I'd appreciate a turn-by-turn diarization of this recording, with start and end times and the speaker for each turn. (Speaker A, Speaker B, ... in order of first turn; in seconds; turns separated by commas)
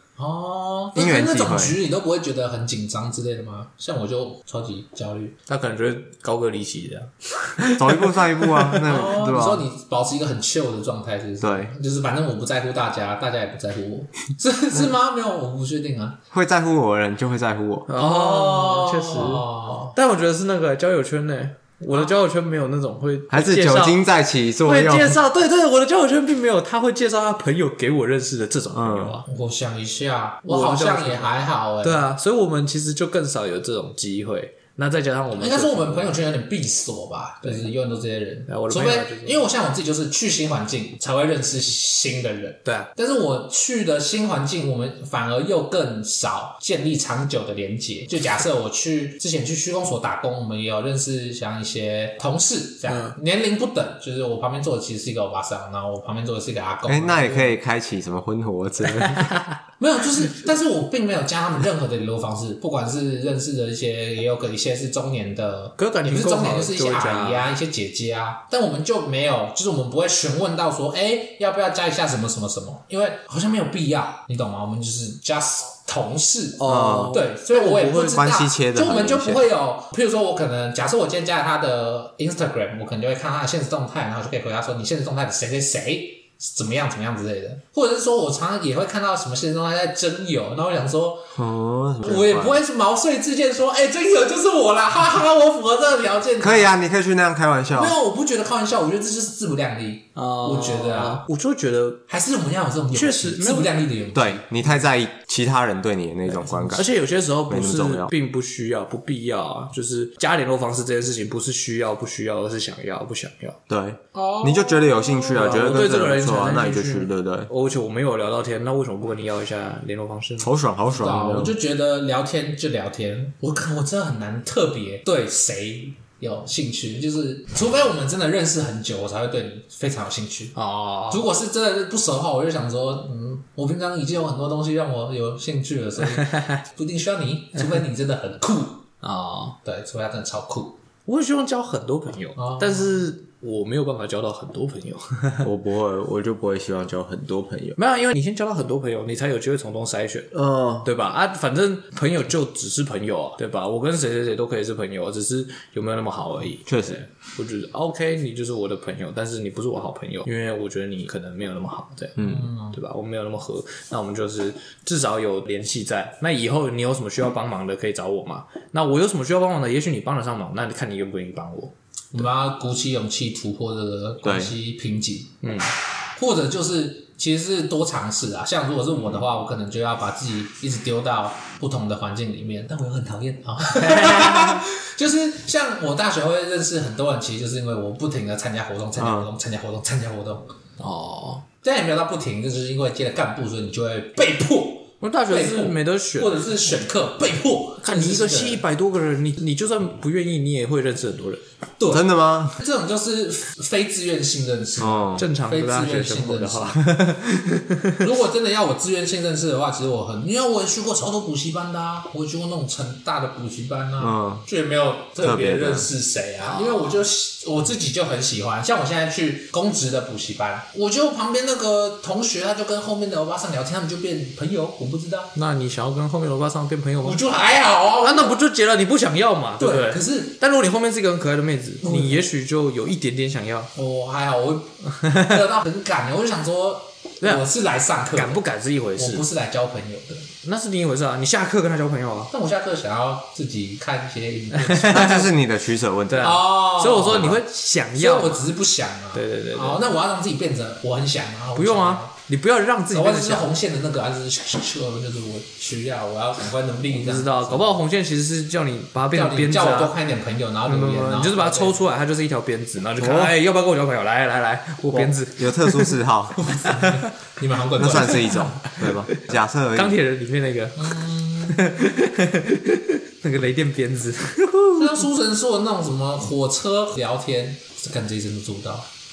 Speaker A: 0.2-5.3, Speaker B: 0.9-1.8, Speaker C: 5.5-8.9, Speaker B: 7.7-9.6, Speaker A: 8.8-16.2, Speaker B: 11.4-11.7, Speaker B: 16.3-17.9, Speaker C: 17.9-24.0, Speaker A: 17.9-19.9, Speaker B: 23.3-25.2, Speaker C: 24.6-29.2, Speaker B: 28.7-29.2, Speaker A: 29.2-32.0, Speaker C: 30.5-36.2, Speaker A: 35.4-57.5, Speaker C: 38.5-39.4, Speaker C: 52.9-53.2, Speaker B: 56.9-59.3, Speaker C: 59.0-59.6, Speaker A: 59.8-91.3, Speaker C: 65.8-67.5, Speaker C: 76.6-78.2, Speaker B: 76.6-79.5, Speaker B: 91.3-92.6, Speaker A: 92.0-96.7, Speaker B: 96.4-97.9, Speaker A: 97.8-101.2, Speaker C: 100.2-102.0, Speaker A: 102.1-104.5, Speaker C: 102.9-103.8, Speaker B: 104.1-106.9, Speaker C: 106.4-113.6, Speaker B: 107.5-108.1, Speaker B: 113.7-117.5, Speaker A: 114.1-115.5, Speaker C: 115.3-120.5, Speaker B: 120.4-121.5, Speaker A: 120.9-130.6, Speaker C: 130.5-131.2, Speaker A: 131.1-138.8, Speaker C: 136.1-136.5, Speaker C: 139.0-139.6, Speaker A: 139.6-140.8, Speaker C: 141.1-145.5, Speaker A: 142.3-142.9, Speaker B: 145.4-147.8, Speaker C: 147.8-171.7, Speaker B: 150.3-150.9, Speaker B: 156.7-157.0, Speaker B: 162.2-162.4, Speaker A: 162.2-162.8, Speaker A: 172.1-175.3, Speaker B: 174.2-174.5, Speaker C: 175.4-175.7, Speaker A: 176.2-190.5, Speaker C: 183.7-184.6, Speaker B: 189.0-189.3, Speaker C: 190.8-191.4, Speaker A: 191.6-198.6, Speaker C: 195.0-196.4, Speaker C: 197.8-201.4, Speaker A: 201.8-206.8, Speaker B: 201.9-202.6, Speaker B: 204.8-205.3, Speaker C: 205.2-208.0, Speaker A: 208.0-225.3, Speaker B: 214.0-214.4, Speaker B: 215.2-215.9, Speaker C: 216.4-216.9, Speaker C: 225.3-227.2, Speaker A: 227.0-228.4, Speaker C: 228.0-233.7, Speaker A: 229.6-230.3, Speaker A: 231.8-232.2, Speaker A: 233.7-238.4, Speaker C: 235.0-235.4, Speaker C: 238.1-239.2, Speaker A: 239.0-240.3, Speaker C: 240.4-242.3, Speaker A: 242.3-245.2, Speaker C: 244.6-245.3, Speaker B: 244.8-246.4, Speaker C: 246.1-248.4, Speaker A: 246.2-247.4, Speaker A: 247.9-252.1, Speaker C: 249.1-249.8, Speaker C: 251.6-253.5, Speaker A: 252.9-257.7, Speaker C: 256.9-259.9, Speaker A: 259.1-261.8, Speaker C: 260.7-266.0, Speaker B: 263.0-263.3, Speaker B: 264.9-266.4, Speaker A: 266.4-268.5, Speaker C: 266.7-267.0, Speaker B: 267.8-270.0, Speaker C: 267.9-269.1, Speaker C: 269.7-270.9, Speaker A: 270.8-271.6, Speaker C: 271.5-275.1, Speaker A: 274.7-278.9